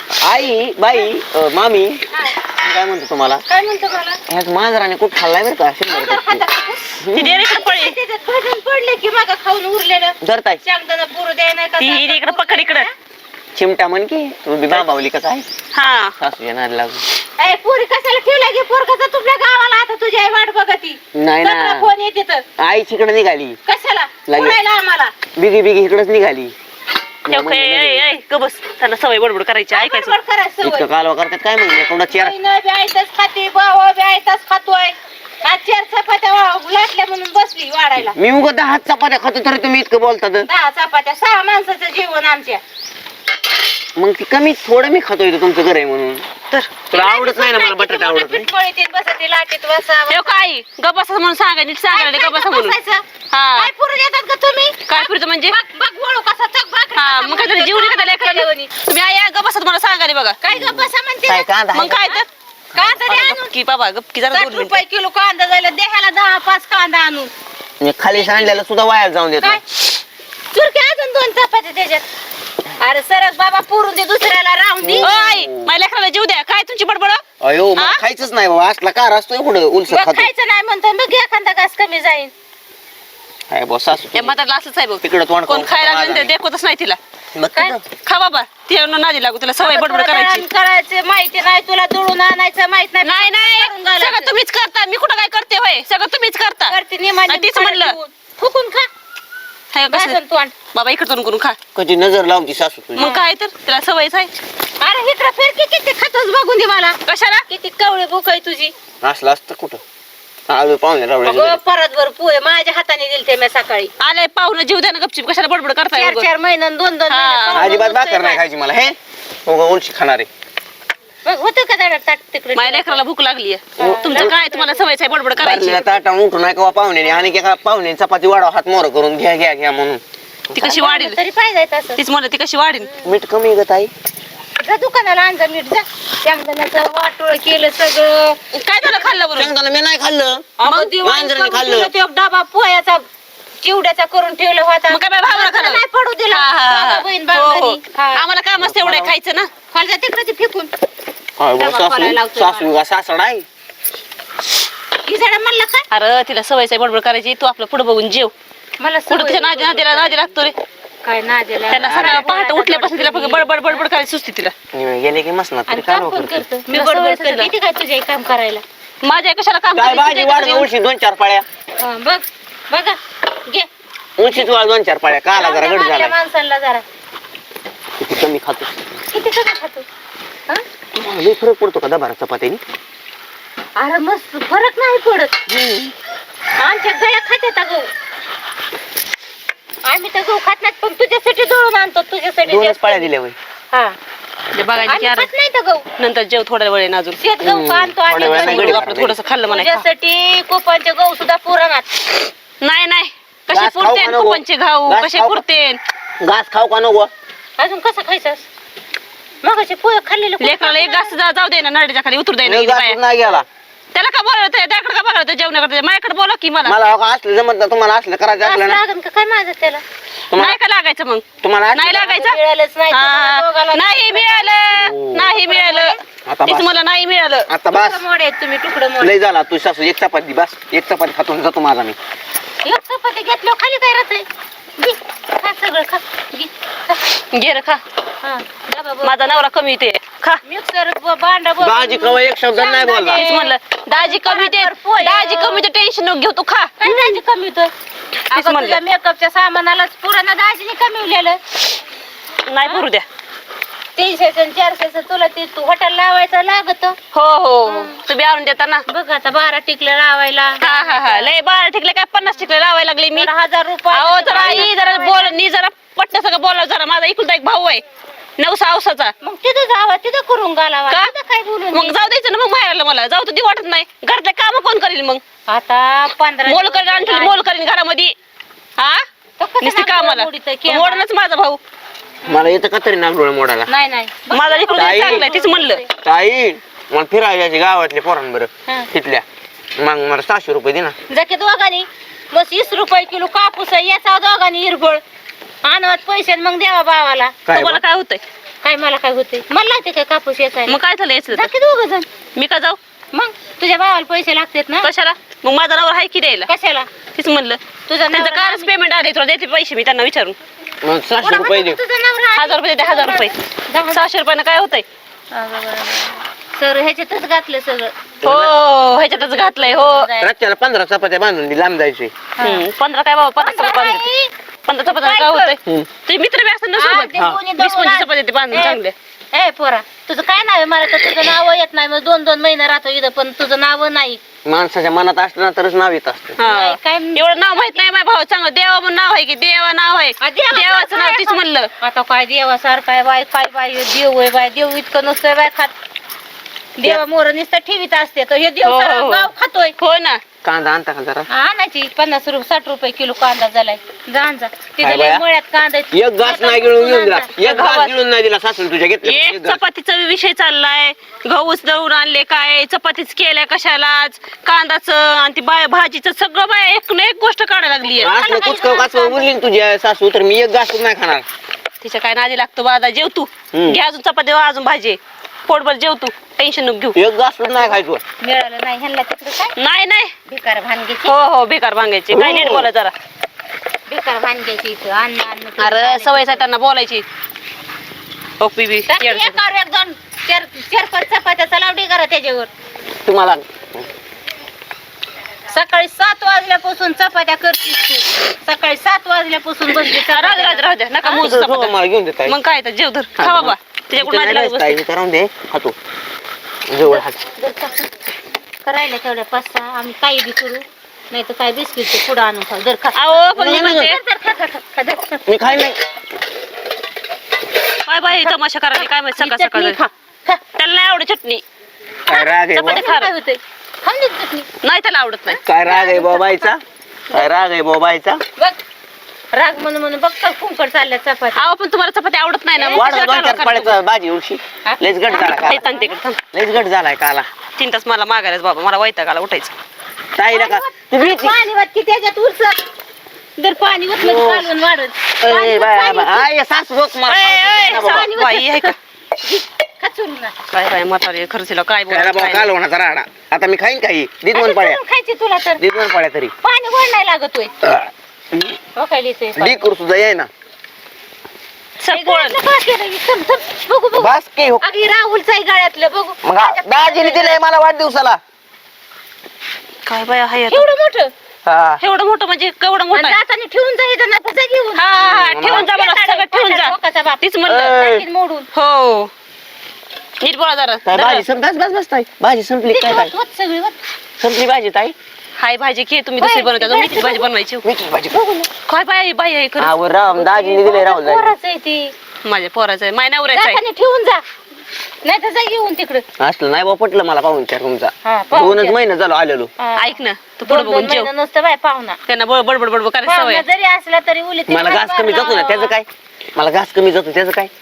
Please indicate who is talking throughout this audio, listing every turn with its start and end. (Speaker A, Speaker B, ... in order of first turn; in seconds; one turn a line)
Speaker A: 0.1-3.4
Speaker B: 3.5-4.2
Speaker A: 4.3-6.4
Speaker B: 5.9-12.9
Speaker A: 7.0-7.5
Speaker C: 7.2-8.0
Speaker A: 10.2-10.6
Speaker C: 11.8-12.9
Speaker A: 13.6-15.5
Speaker C: 15.7-16.1
Speaker A: 16.2-17.0
Speaker B: 17.4-22.4
Speaker A: 21.1-21.9
Speaker A: 22.6-23.6
Speaker B: 23.7-25.1
Speaker A: 24.3-24.6
Speaker A: 25.4-26.5
Speaker A: 27.3-28.1
Speaker C: 27.3-30.1
Speaker B: 29.7-30.9
Speaker A: 30.6-32.3
Speaker B: 32.1-38.2
Speaker A: 38.1-40.5
Speaker B: 40.4-42.6
Speaker A: 44.0-46.3
Speaker C: 46.5-46.8
Speaker A: 46.9-48.5
Speaker B: 46.9-50.4
Speaker C: 50.1-52.8
Speaker B: 51.9-53.0
Speaker C: 53.3-53.7
Speaker B: 53.6-58.7
Speaker C: 54.9-55.6
Speaker C: 57.0-60.4
Speaker B: 60.4-61.5
Speaker A: 60.5-62.1
Speaker C: 61.7-62.3
Speaker B: 62.0-63.5
Speaker C: 63.1-64.8
Speaker B: 64.3-67.3
Speaker A: 67.8-69.6
Speaker B: 68.1-68.6
Speaker B: 70.5-72.0
Speaker B: 72.8-75.4
Speaker A: 74.8-75.7
Speaker C: 75.0-77.2
Speaker A: 77.4-80.3
Speaker B: 79.9-82.3
Speaker A: 83.5-84.4
Speaker C: 84.1-87.0
Speaker A: 85.0-86.3
Speaker A: 87.3-87.8
Speaker C: 88.0-90.5
Speaker B: 89.6-94.3
Speaker C: 93.0-96.8
Speaker B: 96.7-98.9
Speaker C: 97.3-98.0
Speaker C: 99.7-100.2
Speaker B: 99.9-100.5
Speaker C: 100.7-101.6
Speaker A: 101.8-103.1
Speaker C: 102.9-104.3
Speaker B: 103.0-103.3
Speaker B: 104.8-107.0
Speaker C: 107.1-107.5
Speaker B: 107.5-108.7
Speaker A: 109.0-109.8
Speaker A: 110.5-111.6
Speaker B: 111.2-113.9
Speaker C: 114.0-116.3
Speaker B: 115.9-118.4
Speaker C: 117.1-117.7
Speaker A: 117.5-120.3
Speaker B: 121.2-123.0
Speaker C: 122.5-126.0
Speaker A: 123.8-124.3
Speaker B: 123.8-124.9
Speaker A: 125.4-130.0
Speaker C: 130.5-131.2
Speaker B: 130.6-132.0
Speaker C: 132.0-132.9
Speaker A: 133.0-133.9
Speaker B: 134.6-139.2
Speaker C: 138.5-139.5
Speaker A: 139.3-141.9
Speaker B: 140.6-143.1
Speaker C: 140.6-141.0
Speaker B: 143.6-148.2
Speaker C: 144.9-149.5
Speaker A: 148.6-149.1
Speaker B: 149.7-150.7
Speaker A: 151.4-153.5
Speaker B: 151.6-152.7
Speaker B: 155.1-155.9
Speaker C: 155.9-158.3
Speaker B: 158.8-160.2
Speaker C: 159.1-160.6
Speaker B: 161.0-163.8
Speaker C: 161.7-164.5
Speaker A: 161.7-162.3
Speaker A: 164.7-166.4
Speaker B: 165.7-168.6
Speaker C: 166.7-167.5
Speaker C: 169.0-170.7
Speaker A: 169.7-171.4
Speaker B: 171.8-173.7
Speaker A: 174.2-176.2
Speaker B: 175.3-176.8
Speaker A: 178.0-179.0
Speaker B: 179.1-179.9
Speaker A: 180.9-182.6
Speaker B: 183.8-185.3
Speaker A: 185.5-185.9
Speaker B: 186.6-187.9
Speaker B: 189.8-193.1
Speaker A: 192.4-193.4
Speaker A: 194.5-195.0
Speaker C: 194.5-195.3
Speaker B: 194.9-195.9
Speaker C: 196.0-197.2
Speaker B: 197.2-198.9
Speaker A: 197.4-199.2
Speaker C: 198.2-199.8
Speaker B: 199.5-201.9
Speaker C: 202.6-205.8
Speaker A: 203.5-205.4
Speaker A: 206.2-207.1
Speaker B: 207.6-208.4
Speaker B: 209.4-211.1
Speaker C: 210.4-213.0
Speaker A: 212.4-213.5
Speaker C: 213.9-216.8
Speaker A: 216.7-218.8
Speaker B: 218.4-219.8
Speaker A: 220.3-220.6
Speaker C: 220.3-222.4
Speaker A: 221.4-222.1
Speaker B: 221.9-224.5
Speaker C: 222.9-227.5
Speaker A: 224.7-225.4
Speaker B: 225.4-226.0
Speaker A: 226.2-226.7
Speaker A: 227.5-228.0
Speaker B: 227.7-229.2
Speaker A: 229.0-232.0
Speaker B: 232.7-234.3
Speaker B: 234.8-237.0
Speaker C: 237.3-237.8
Speaker B: 238.2-239.4
Speaker C: 239.0-240.4
Speaker B: 240.4-245.7
Speaker A: 241.6-243.3
Speaker C: 243.1-247.2
Speaker B: 246.8-247.7
Speaker C: 248.3-248.8
Speaker B: 248.3-251.4
Speaker C: 252.5-253.1
Speaker B: 253.9-257.0
Speaker C: 257.1-258.9
Speaker B: 257.7-258.0
Speaker B: 258.9-261.3
Speaker C: 260.6-263.3
Speaker B: 263.1-265.4
Speaker C: 263.9-267.8
Speaker C: 268.4-269.1
Speaker B: 269.2-272.0
Speaker C: 271.7-275.2
Speaker B: 275.5-277.4
Speaker C: 276.5-278.1
Speaker C: 278.8-279.1
Speaker B: 279.4-281.1
Speaker C: 279.6-281.6
Speaker B: 282.2-282.5
Speaker A: 282.3-283.7
Speaker B: 283.7-285.9
Speaker C: 284.3-285.8
Speaker A: 284.7-285.3
Speaker A: 286.0-289.2
Speaker A: 289.8-290.9
Speaker B: 291.1-295.0
Speaker B: 295.6-297.4
Speaker A: 297.5-297.8
Speaker C: 297.5-298.2
Speaker B: 298.6-300.8
Speaker C: 300.7-301.5
Speaker B: 301.3-302.1
Speaker C: 302.4-302.8
Speaker B: 303.1-304.9
Speaker C: 304.8-306.5
Speaker B: 306.5-306.9
Speaker C: 307.1-310.4
Speaker B: 307.9-308.7
Speaker A: 310.8-311.8
Speaker B: 311.2-314.0
Speaker C: 312.4-313.3
Speaker C: 313.9-314.9
Speaker B: 315.3-318.0
Speaker A: 318.2-318.5
Speaker C: 318.2-320.1
Speaker B: 319.0-320.3
Speaker A: 320.2-322.1
Speaker B: 322.4-322.7
Speaker C: 322.4-324.1
Speaker B: 323.4-324.3
Speaker C: 324.7-328.9
Speaker B: 324.9-325.5
Speaker B: 326.8-328.8
Speaker B: 329.3-334.2
Speaker A: 334.4-336.4
Speaker C: 336.4-341.7
Speaker B: 336.4-337.8
Speaker B: 340.2-345.7
Speaker B: 346.8-349.8
Speaker C: 348.6-350.2
Speaker A: 350.4-351.3
Speaker B: 351.3-357.3
Speaker A: 354.8-355.2
Speaker A: 355.9-359.6
Speaker C: 357.4-357.9
Speaker C: 359.0-368.1
Speaker B: 367.9-369.3
Speaker A: 368.0-371.2
Speaker C: 371.8-377.0
Speaker A: 373.5-373.8
Speaker A: 376.9-378.0
Speaker B: 377.5-379.6
Speaker C: 379.6-380.1
Speaker B: 380.3-381.1
Speaker C: 381.1-382.9
Speaker A: 382.1-382.7
Speaker B: 383.9-386.4
Speaker C: 385.6-387.0
Speaker C: 388.4-389.4
Speaker B: 388.9-392.5
Speaker A: 393.1-393.4
Speaker B: 395.5-401.2
Speaker C: 399.8-404.8
Speaker A: 401.1-402.4
Speaker A: 403.2-405.8
Speaker A: 406.7-407.2
Speaker B: 406.8-407.9
Speaker B: 408.6-415.3
Speaker C: 412.9-414.0
Speaker A: 413.4-413.9
Speaker A: 415.3-415.8
Speaker C: 417.9-419.8
Speaker B: 418.1-420.4
Speaker C: 420.6-421.4
Speaker B: 422.1-424.5
Speaker A: 422.1-422.9
Speaker C: 422.6-423.1
Speaker C: 424.6-425.4
Speaker A: 425.4-428.2
Speaker B: 425.6-426.5
Speaker B: 429.3-431.4
Speaker C: 431.4-433.8
Speaker B: 432.6-432.9
Speaker A: 432.7-435.6
Speaker B: 434.7-436.0
Speaker C: 435.1-436.2
Speaker A: 436.3-437.3
Speaker C: 437.6-439.5
Speaker A: 440.2-441.4
Speaker B: 440.3-442.6
Speaker B: 443.4-446.3
Speaker A: 443.9-444.5
Speaker A: 445.2-448.1
Speaker C: 447.1-448.8
Speaker B: 447.7-450.4
Speaker C: 450.5-452.5
Speaker A: 451.9-454.8
Speaker B: 454.3-455.6
Speaker A: 455.6-456.3
Speaker B: 456.4-457.5
Speaker A: 457.6-458.6
Speaker B: 458.8-459.7
Speaker A: 459.4-460.3
Speaker C: 461.8-462.4
Speaker B: 461.9-464.1
Speaker A: 464.0-464.6
Speaker B: 464.6-467.4
Speaker A: 466.2-468.2
Speaker C: 469.9-470.7
Speaker B: 470.5-471.1
Speaker A: 471.5-471.8
Speaker C: 471.8-473.2
Speaker B: 472.9-478.5
Speaker C: 474.8-477.8
Speaker A: 475.0-475.7
Speaker A: 477.5-478.1
Speaker C: 478.5-479.1
Speaker C: 480.2-481.2
Speaker A: 480.9-483.1
Speaker B: 482.7-483.8
Speaker A: 484.2-484.9
Speaker C: 485.4-487.6
Speaker B: 486.2-487.3
Speaker A: 487.6-488.2
Speaker B: 488.1-488.5
Speaker C: 488.7-489.8
Speaker A: 489.6-491.4
Speaker B: 490.1-491.9
Speaker C: 492.2-493.6
Speaker B: 493.3-494.2
Speaker B: 495.0-496.0
Speaker A: 496.2-499.5
Speaker B: 498.0-498.8
Speaker B: 499.6-502.0
Speaker C: 499.8-501.1
Speaker C: 502.1-503.4
Speaker B: 503.0-505.8
Speaker A: 504.5-507.5